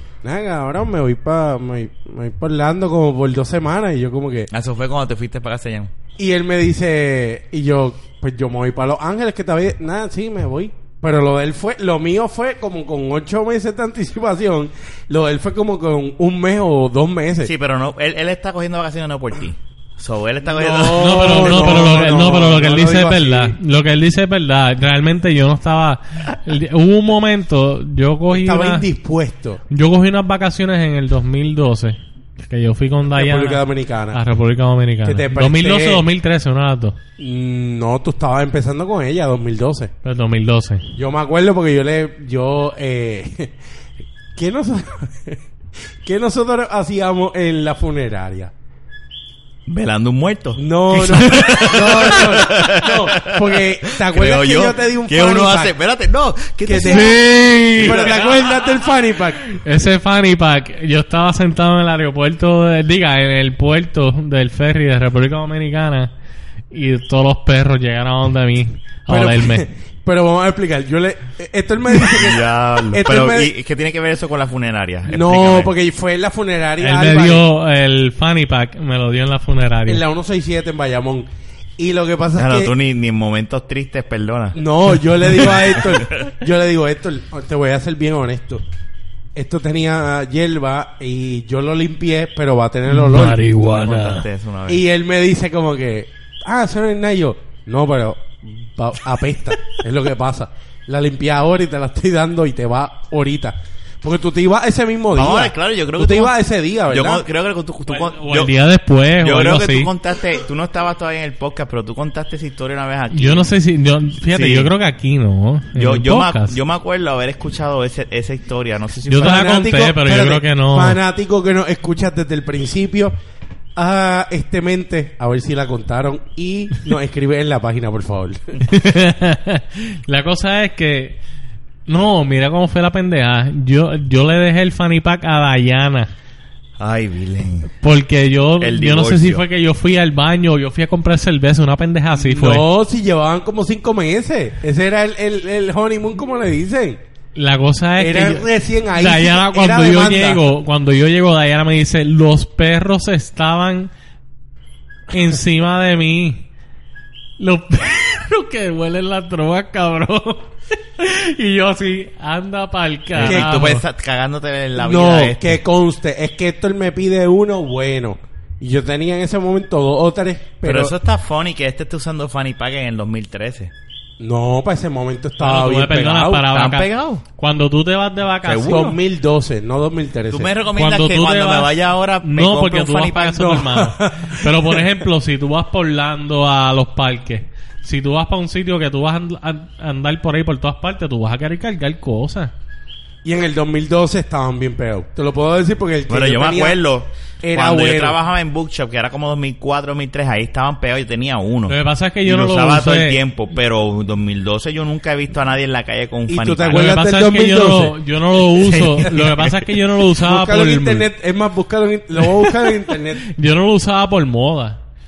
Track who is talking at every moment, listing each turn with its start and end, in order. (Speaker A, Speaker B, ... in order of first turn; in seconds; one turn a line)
Speaker A: 0.2-4.5
Speaker B: 4.5-5.9
Speaker A: 6.2-17.5
Speaker B: 17.4-21.9
Speaker A: 20.4-23.6
Speaker C: 20.9-28.9
Speaker A: 28.3-29.6
Speaker C: 29.7-37.0
Speaker A: 33.1-34.2
Speaker A: 35.0-36.0
Speaker A: 37.2-39.9
Speaker C: 40.0-40.9
Speaker A: 41.0-43.5
Speaker A: 44.3-45.4
Speaker A: 46.0-48.5
Speaker B: 49.7-58.2
Speaker A: 50.5-55.7
Speaker C: 51.0-52.2
Speaker A: 56.6-57.2
Speaker C: 56.8-58.6
Speaker A: 57.8-59.4
Speaker C: 59.5-66.1
Speaker C: 66.7-69.7
Speaker A: 69.1-73.5
Speaker B: 71.9-75.7
Speaker A: 75.1-77.4
Speaker C: 76.8-80.0
Speaker A: 79.9-81.3
Speaker A: 81.8-82.7
Speaker B: 82.4-84.6
Speaker A: 84.5-88.6
Speaker B: 85.3-86.2
Speaker A: 89.3-93.5
Speaker C: 92.9-94.2
Speaker B: 93.5-94.8
Speaker A: 94.7-107.2
Speaker B: 105.1-106.3
Speaker B: 106.9-108.6
Speaker C: 107.9-109.9
Speaker B: 109.2-113.5
Speaker C: 113.1-116.6
Speaker B: 114.3-114.7
Speaker B: 115.8-119.4
Speaker C: 119.0-121.0
Speaker A: 119.2-123.1
Speaker A: 123.8-128.6
Speaker C: 128.6-131.2
Speaker C: 131.9-136.1
Speaker B: 136.8-137.7
Speaker C: 137.8-142.7
Speaker B: 138.6-139.4
Speaker A: 142.2-147.0
Speaker C: 147.3-153.9
Speaker A: 148.0-150.4
Speaker C: 155.1-156.4
Speaker C: 157.4-163.8
Speaker B: 163.2-165.6
Speaker A: 163.2-163.5
Speaker A: 164.8-170.9
Speaker B: 170.6-173.7
Speaker A: 174.2-176.5
Speaker C: 175.4-178.9
Speaker B: 176.5-177.2
Speaker B: 178.4-178.9
Speaker A: 178.6-180.5
Speaker B: 180.3-183.6
Speaker C: 180.7-192.5
Speaker A: 183.4-184.9
Speaker A: 193.2-196.8
Speaker B: 196.1-207.0
Speaker A: 197.4-198.2
Speaker C: 201.7-203.2
Speaker A: 206.3-208.0
Speaker C: 206.7-211.1
Speaker A: 208.7-209.1
Speaker B: 208.7-209.4
Speaker A: 210.2-213.2
Speaker C: 213.2-214.8